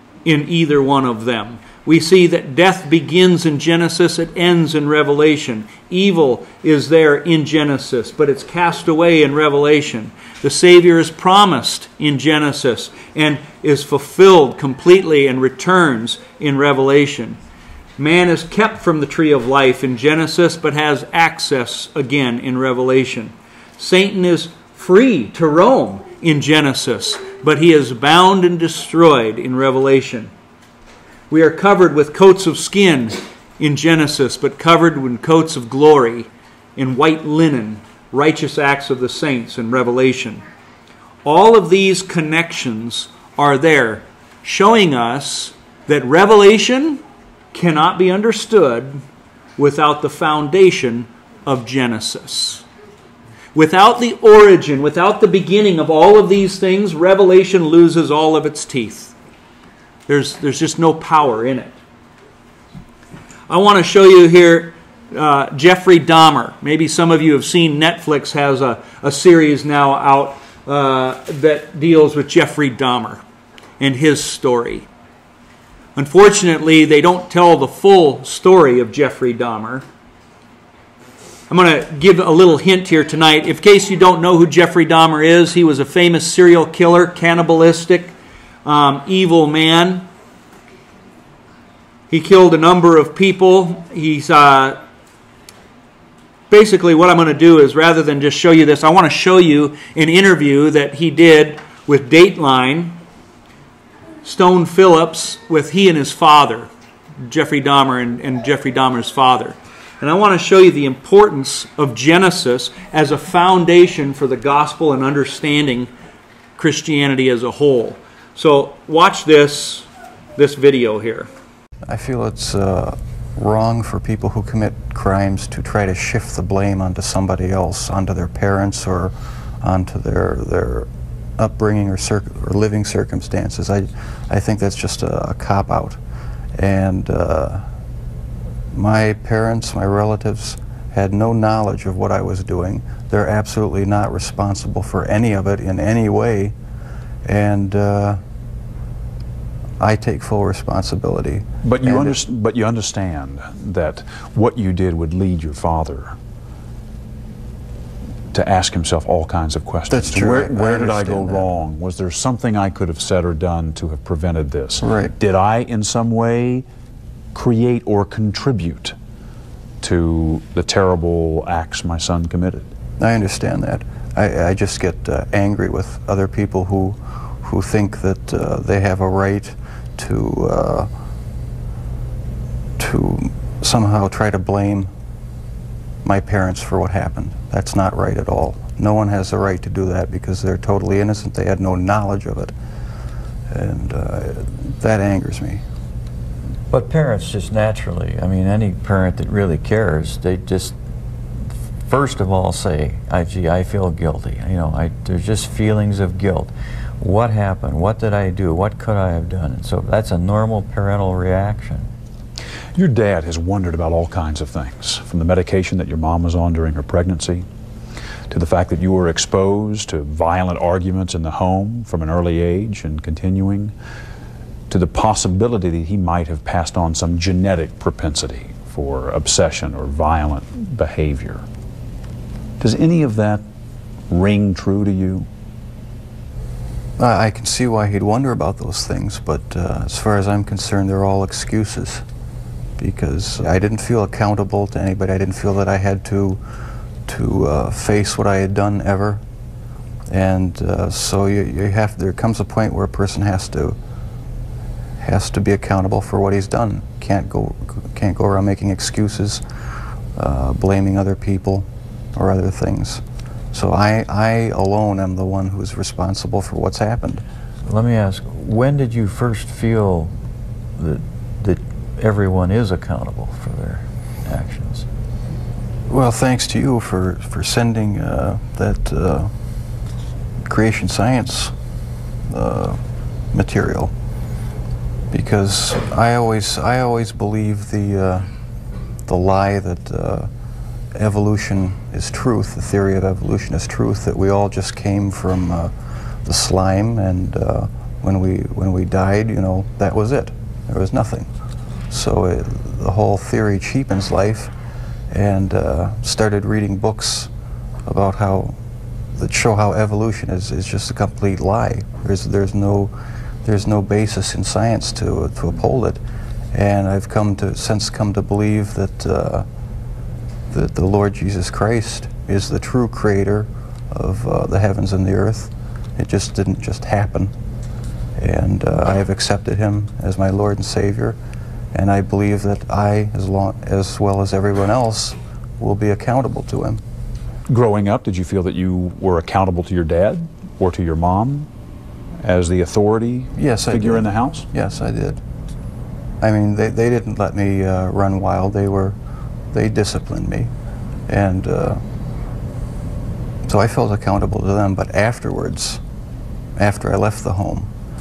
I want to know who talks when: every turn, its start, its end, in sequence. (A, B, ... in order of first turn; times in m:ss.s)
0:00.2-0:17.4 A
0:18.0-0:30.3 A
0:31.3-0:40.4 A
0:41.2-0:47.0 A
0:47.5-0:49.0 A
0:49.6-0:52.6 A
0:53.5-0:59.2 A
1:00.1-1:01.8 A
1:03.5-1:13.2 A
1:13.8-1:14.9 A
1:16.0-1:19.8 A
1:21.5-1:30.1 A
1:32.1-1:34.8 A
1:36.5-1:43.0 A
1:44.2-1:46.7 A
1:47.2-1:55.9 A
1:56.6-2:01.3 A
2:01.9-2:16.0 B
2:16.6-2:17.7 B
2:18.7-2:26.6 B
2:27.2-2:28.2 B
2:29.8-2:32.2 B
2:31.6-2:36.2 C
2:38.3-2:46.7 C
2:39.9-2:41.5 B
2:44.8-2:45.1 B
2:47.3-2:49.0 C
2:49.8-2:52.7 C
2:53.0-3:00.9 B
3:02.8-3:04.9 B
3:06.0-3:12.5 B
3:13.5-3:15.6 B
3:16.7-3:20.8 D
3:21.8-3:31.9 D
3:32.8-3:37.5 C
3:38.3-3:43.7 C
3:44.7-3:51.4 C
3:52.6-3:53.4 C
3:54.1-3:55.3 C
3:57.0-4:02.0 B
4:02.8-4:06.4 B
4:07.0-4:09.2 B
4:10.1-4:13.8 B
4:15.0-4:19.4 B
4:20.1-4:27.2 B
4:27.6-4:30.1 D
4:30.8-4:34.9 D
4:35.9-4:39.8 B
4:40.4-4:41.5 B
4:42.3-4:43.9 B
4:45.1-4:48.3 B
4:49.0-4:50.3 B
4:50.9-5:01.3 B
5:01.9-5:04.5 B
5:05.1-5:07.3 B
5:07.8-5:08.6 B
5:09.1-5:16.0 B
5:16.5-5:19.5 B
5:20.5-5:27.3 B
5:28.2-5:31.2 B
5:31.7-5:36.8 B
5:37.5-5:41.5 C
5:42.2-5:44.5 C
5:43.4-5:45.2 B
5:46.2-5:49.0 B
5:49.5-5:50.5 B
5:51.1-5:51.8 B
5:53.4-5:55.8 B
5:56.6-5:57.7 B